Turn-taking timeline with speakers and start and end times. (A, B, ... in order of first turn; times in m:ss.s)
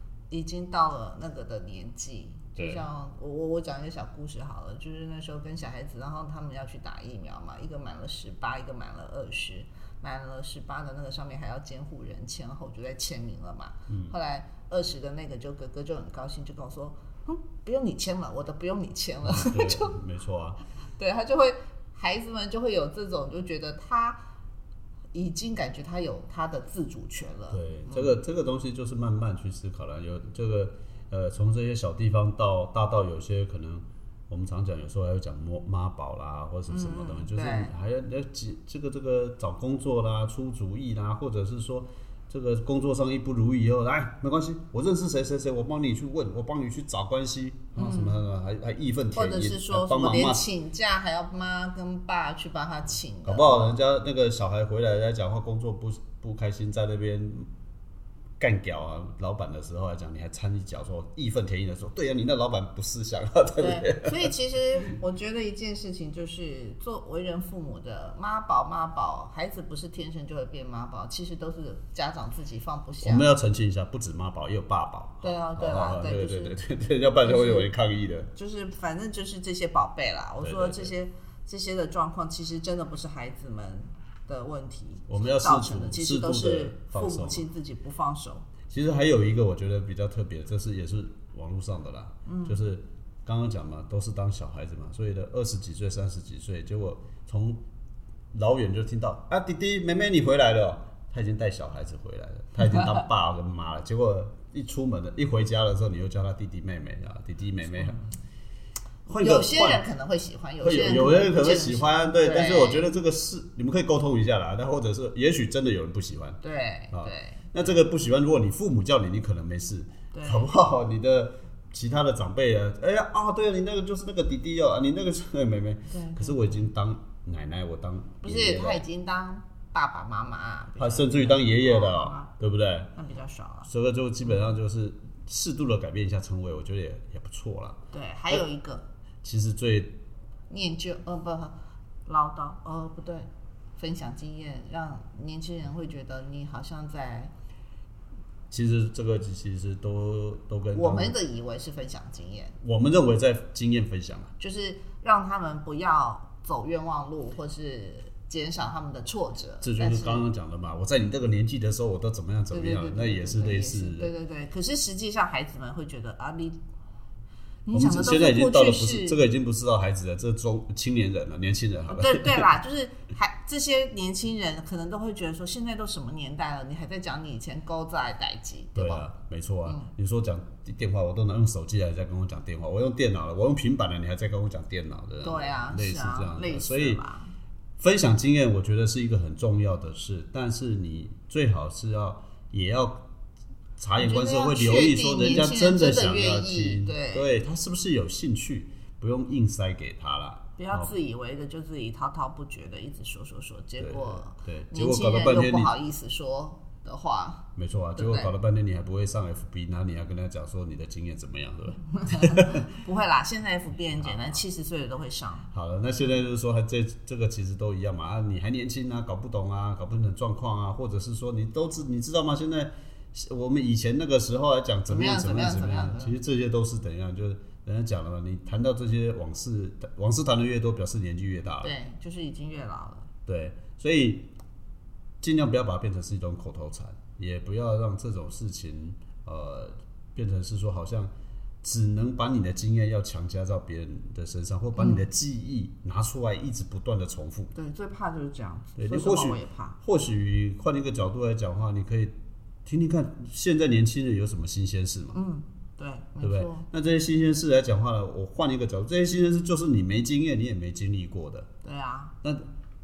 0:00.3-0:19.9 A
0:02.6-0:02.8 B
0:13.9-0:14.1 B
0:19.2-0:20.6 B
0:21.0-0:24.2 A
0:25.1-0:28.2 A
0:27.5-0:50.5 B
0:36.7-0:37.7 A
0:47.7-0:48.2 A
0:49.1-0:53.8 A
0:53.2-0:57.5 B
0:58.4-1:04.3 B
1:03.6-1:13.3 A
1:13.0-1:18.3 B
1:15.2-1:16.6 A
1:17.2-1:17.7 A
1:18.3-1:28.5 A
1:20.4-1:20.9 B
1:25.1-1:27.4 B
1:28.7-1:37.6 B
1:32.2-1:32.6 A
1:38.3-1:48.0 B
1:47.8-1:48.0 A
1:49.1-1:52.9 A
1:49.1-1:49.8 B
1:50.6-1:56.4 B
1:56.4-1:57.8 A
1:56.9-2:08.8 B
2:00.1-2:00.5 A
2:05.9-2:06.7 A
2:08.2-2:12.3 A
2:10.8-2:12.9 B
2:12.9-2:13.7 A
2:13.7-2:17.8 B
2:17.9-2:18.8 A
2:19.2-2:20.0 B
2:20.5-2:27.3 A
2:28.5-2:31.2 B
2:30.7-2:32.6 A
2:32.6-2:34.3 B
2:34.4-2:40.2 A
2:39.6-2:44.1 B
2:42.5-2:46.6 A
2:47.6-2:49.2 A
2:47.7-2:52.5 B
2:51.9-2:59.1 A
2:58.7-3:07.0 B
3:05.2-3:07.3 A
3:07.8-3:13.0 B
3:13.8-3:20.9 B
3:14.0-3:17.4 A
3:20.6-3:28.3 A
3:23.8-3:25.7 B
3:27.6-3:32.6 B
3:31.9-3:35.5 A
3:33.9-3:34.4 B
3:35.5-3:51.7 B
3:44.9-3:46.2 A
3:51.6-3:53.1 A
3:53.2-3:54.3 B
3:55.2-4:01.1 B
4:01.6-4:07.5 B
4:04.8-4:05.1 A
4:07.5-4:09.8 A
4:08.8-4:12.1 B
4:12.6-4:15.2 B
4:15.1-4:16.7 A
4:16.2-4:21.5 B
4:21.6-4:22.1 A
4:22.2-4:22.5 B